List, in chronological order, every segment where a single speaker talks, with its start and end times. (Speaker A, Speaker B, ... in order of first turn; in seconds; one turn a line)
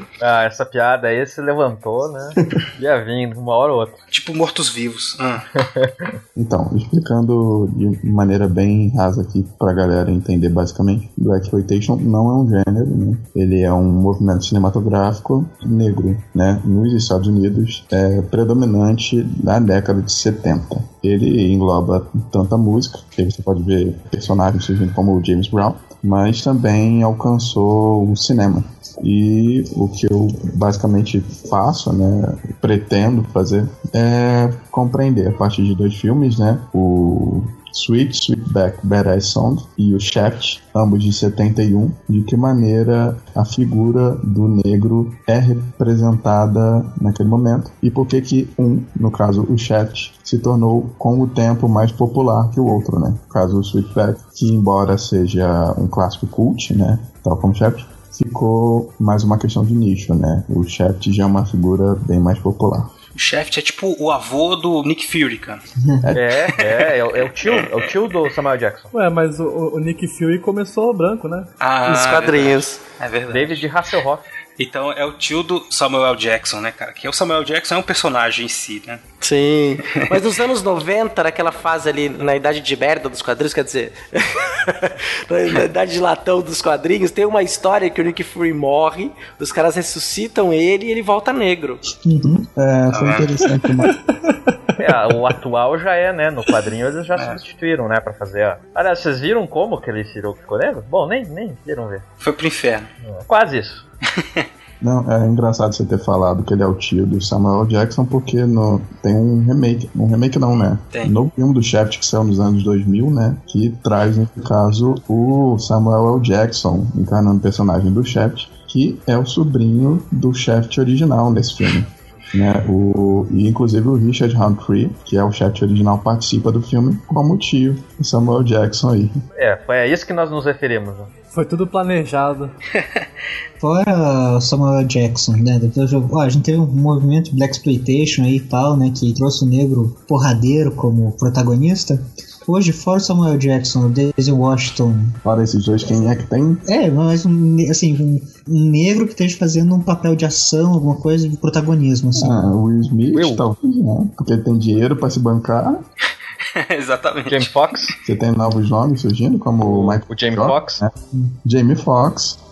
Speaker A: 0.2-4.0
Speaker B: 4.1-5.5
Speaker A: 5.6-6.2
Speaker C: 6.4-62.9
Speaker B: 63.1-65.6
Speaker A: 66.2-68.9
Speaker D: 68.9-71.5
Speaker B: 71.6-73.6
Speaker E: 71.9-72.8
Speaker A: 73.3-74.2
Speaker B: 74.6-79.0
Speaker E: 79.2-91.8
Speaker F: 92.0-93.9
Speaker B: 92.9-93.3
Speaker C: 93.0-93.8
Speaker A: 94.8-102.0
Speaker B: 102.2-102.9
Speaker A: 103.1-103.8
Speaker B: 104.2-104.5
Speaker C: 104.8-129.2
Speaker A: 129.4-131.1
Speaker D: 131.3-132.5
Speaker F: 133.6-145.2
Speaker C: 145.2-146.6
Speaker F: 146.7-152.4
Speaker C: 152.2-155.8
Speaker A: 153.1-153.4
Speaker B: 156.5-157.8
Speaker A: 157.3-157.9
Speaker C: 158.0-162.4
Speaker A: 159.6-160.8